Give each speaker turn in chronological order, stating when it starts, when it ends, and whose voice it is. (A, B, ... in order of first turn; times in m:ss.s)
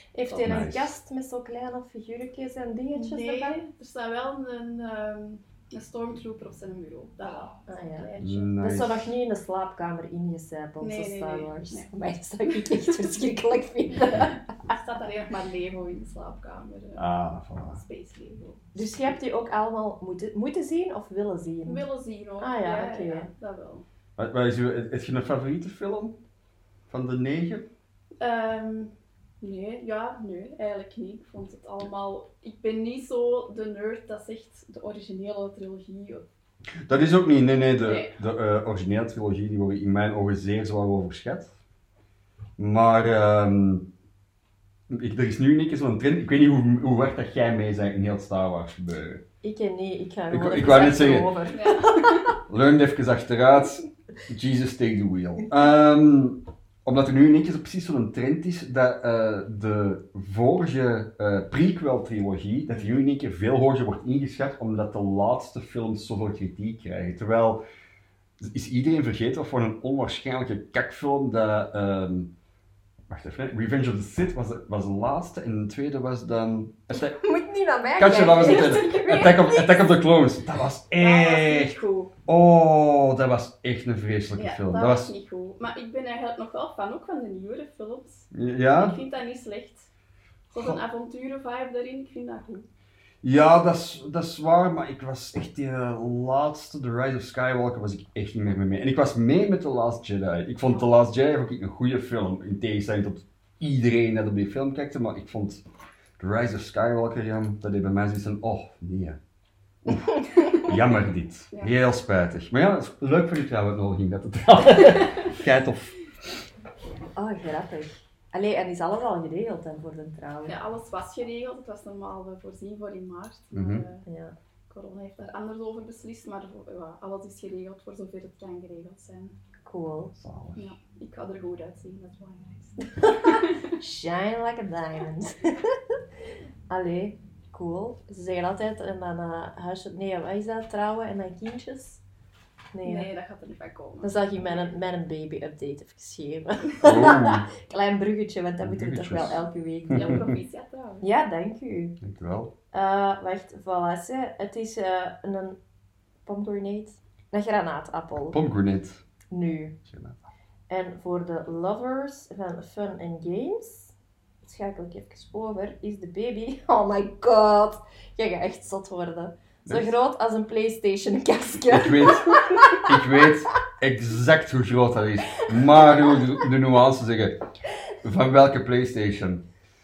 0:00.1-0:03.6 A
0:00.3-0:00.7 B
0:00.4-0:00.9 C
0:02.9-0:08.5 B
0:07.7-0:08.1 A
0:08.2-0:09.1 C
0:08.6-0:14.4 A
0:10.8-0:11.9 B
0:14.6-0:17.0 B
0:16.9-0:17.8 C
0:17.7-0:18.7 B
0:18.7-0:21.8 A
0:21.6-0:23.8 B
0:22.4-0:23.3 A
0:24.2-0:26.2 C
0:26.9-0:27.7 C
0:28.2-0:36.2 B
0:36.9-0:41.5 C
0:37.8-0:38.2 B
0:42.6-0:43.9 C
0:44.9-0:49.2 C
0:49.4-0:52.2 A
0:50.3-0:51.3 C
0:51.5-0:52.2 B
0:52.4-1:07.6 C
1:08.4-1:12.3 C
1:13.1-1:17.2 C
1:16.9-1:19.9 A
1:18.0-1:25.1 C
1:21.0-1:22.1 B
1:24.3-1:29.9 B
1:28.3-1:29.0 C
1:30.5-1:32.6 B
1:30.5-1:30.8 C
1:33.2-1:45.6 C
1:46.2-1:49.2 C
1:49.8-1:56.0 C
1:50.3-1:50.6 A
1:57.1-2:00.6 A
2:00.5-2:04.0 B
2:03.5-2:03.8 C
2:04.0-2:04.3 A
2:04.7-2:09.4 B
2:09.6-2:10.1 A
2:10.2-2:10.7 C
2:10.6-2:13.6 B
2:13.0-2:16.0 A
2:16.7-2:22.0 A
2:22.7-2:23.1 A
2:22.8-2:24.7 B
2:24.0-2:30.3 A
2:26.8-2:27.5 C
2:28.6-2:29.3 C
2:29.9-2:31.0 B
2:29.9-2:30.2 C
2:31.0-2:32.0 A
2:32.0-2:32.5 C
2:32.7-2:35.6 A
2:36.2-2:38.4 A
2:38.3-2:39.0 C
2:39.3-2:39.8 A
2:39.8-2:40.2 C
2:40.7-2:53.2 A
2:49.6-2:50.0 C
2:51.7-2:57.4 C
2:58.0-2:59.4 C